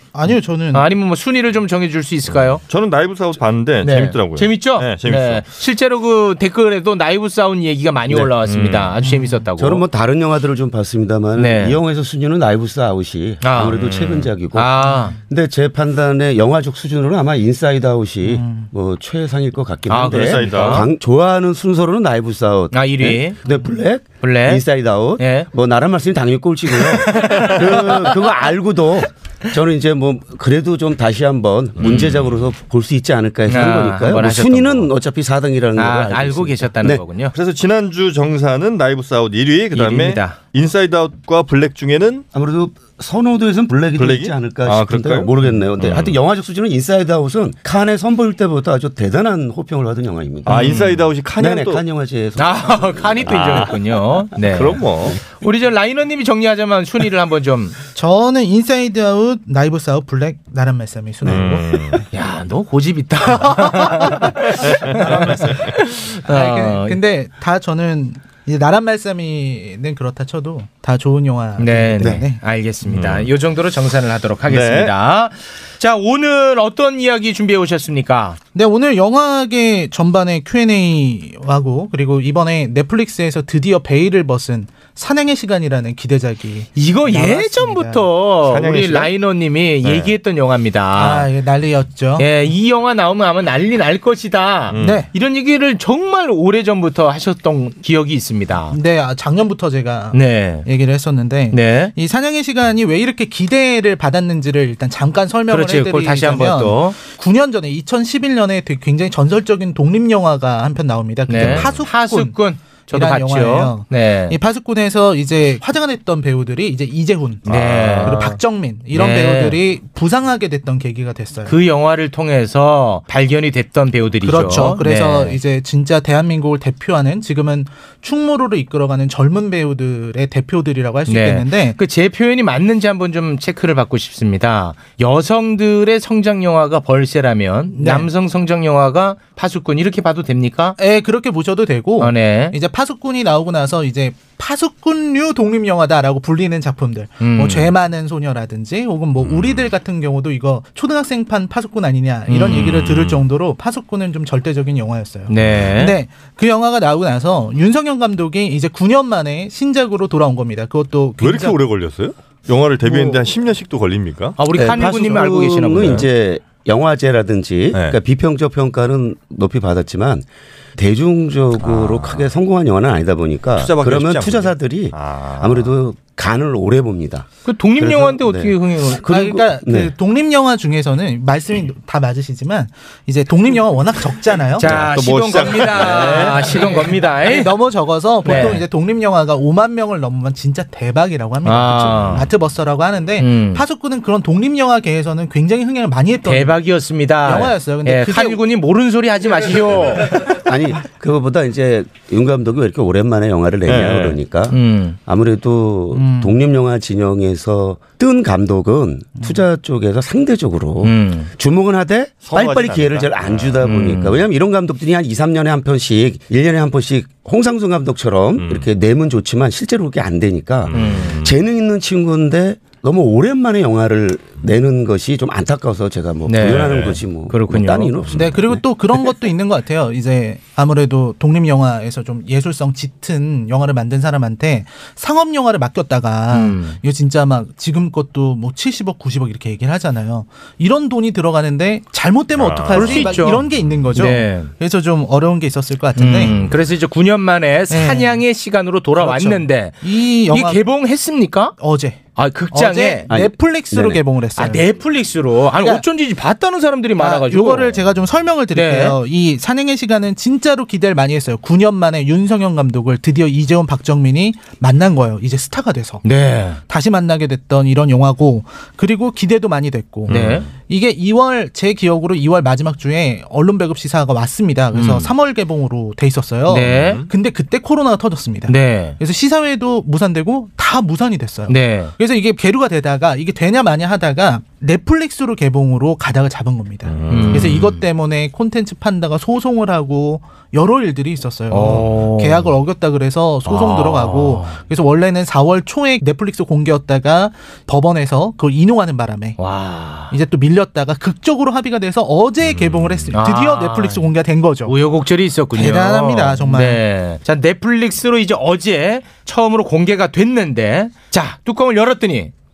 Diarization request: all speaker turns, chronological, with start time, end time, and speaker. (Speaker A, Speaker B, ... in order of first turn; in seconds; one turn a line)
Speaker A: 0.1-0.9
Speaker B: 0.7-2.6
Speaker C: 2.3-5.4
Speaker B: 3.8-9.8
Speaker C: 8.4-9.0
Speaker A: 9.0-9.4
Speaker D: 9.6-14.8
Speaker B: 11.3-11.8
Speaker B: 13.4-13.8
Speaker C: 13.7-14.3
Speaker B: 14.5-15.2
Speaker A: 14.8-15.2
Speaker D: 15.3-37.0
Speaker A: 18.2-18.7
Speaker B: 19.9-20.9
Speaker C: 19.9-20.9
Speaker B: 22.7-23.4
Speaker B: 24.2-24.6
Speaker B: 25.2-25.5
Speaker B: 26.8-28.0
Speaker C: 31.8-32.4
Speaker B: 33.5-34.9
Speaker B: 35.8-37.3
Speaker C: 37.3-42.2
Speaker B: 39.7-40.4
Speaker D: 42.3-53.3
Speaker C: 44.0-46.2
Speaker B: 50.5-50.9
Speaker C: 50.5-51.8
Speaker B: 52.4-57.8
Speaker C: 53.2-53.7
Speaker C: 54.5-55.2
Speaker A: 57.9-62.0
Speaker C: 61.2-62.0
Speaker B: 62.1-67.0
Speaker A: 63.9-64.2
Speaker C: 64.5-65.7
Speaker A: 66.2-72.4
Speaker B: 71.6-78.4
Speaker C: 72.9-73.3
Speaker C: 74.5-74.9
Speaker A: 78.5-88.1
Speaker B: 86.8-91.3
Speaker C: 88.4-89.1
Speaker C: 89.8-90.1
Speaker A: 90.9-92.3
Speaker B: 92.2-98.8
Speaker C: 94.7-95.0
Speaker A: 94.8-95.1
Speaker A: 98.7-117.5
Speaker B: 100.1-100.7
Speaker B: 101.5-101.9
Speaker B: 105.5-107.0
Speaker B: 111.3-114.4
Speaker C: 111.3-111.8
Speaker C: 117.5-118.4
Speaker B: 117.5-118.4
Speaker A: 118.0-121.5
Speaker B: 118.9-119.6
Speaker B: 121.4-125.4
Speaker A: 124.2-131.8
Speaker B: 131.1-140.8
Speaker A: 137.7-138.1
Speaker A: 140.8-161.6
Speaker B: 142.0-142.6
Speaker B: 147.2-147.7
Speaker C: 149.2-149.7
Speaker B: 152.3-152.8
Speaker C: 152.5-153.2
Speaker B: 155.3-156.0
Speaker C: 161.2-164.4
Speaker B: 164.4-166.1
Speaker D: 164.5-170.2
Speaker C: 167.7-168.0
Speaker D: 170.8-179.9
Speaker C: 171.6-172.3
Speaker C: 173.6-175.7
Speaker B: 177.4-179.1
Speaker A: 179.0-184.7
Speaker B: 184.6-187.5
Speaker C: 184.6-186.7
Speaker A: 186.0-196.6
Speaker B: 188.2-188.6
Speaker B: 191.4-192.3
Speaker B: 193.2-193.6
Speaker B: 196.2-200.2
Speaker A: 197.2-198.4
Speaker D: 200.4-228.6
Speaker C: 203.7-204.2
Speaker B: 204.5-204.9
Speaker A: 205.9-206.3
Speaker B: 210.8-211.3
Speaker C: 212.2-213.6
Speaker B: 213.6-214.2
Speaker C: 218.4-218.7
Speaker C: 220.6-221.4
Speaker B: 220.7-221.2
Speaker B: 226.3-227.9
Speaker C: 226.4-227.0
Speaker C: 228.0-228.4
Speaker A: 228.1-246.4
Speaker B: 236.3-236.8
Speaker C: 242.3-243.2
Speaker B: 242.7-243.4
Speaker B: 243.9-244.5
Speaker B: 245.9-251.6
Speaker A: 247.7-248.2
Speaker A: 248.9-250.6
Speaker A: 251.6-254.7
Speaker B: 252.2-253.1
Speaker D: 253.1-254.0
Speaker B: 254.3-257.8
Speaker A: 257.0-266.0
Speaker B: 258.5-259.0
Speaker B: 266.0-266.6
Speaker A: 266.6-299.4
Speaker C: 270.1-270.5
Speaker B: 270.1-270.5
Speaker B: 274.7-275.1
Speaker B: 276.5-277.0
Speaker C: 276.7-277.1
Speaker B: 278.5-279.0
Speaker B: 281.5-281.9
Speaker C: 286.9-287.7
Speaker B: 287.1-287.8
Speaker B: 291.5-292.5
Speaker B: 293.4-294.6
Speaker B: 299.4-300.1
Speaker A: 300.1-304.8
Speaker C: 302.4-303.1
Speaker B: 303.1-304.1
Speaker B: 304.6-312.3
Speaker A: 305.5-306.8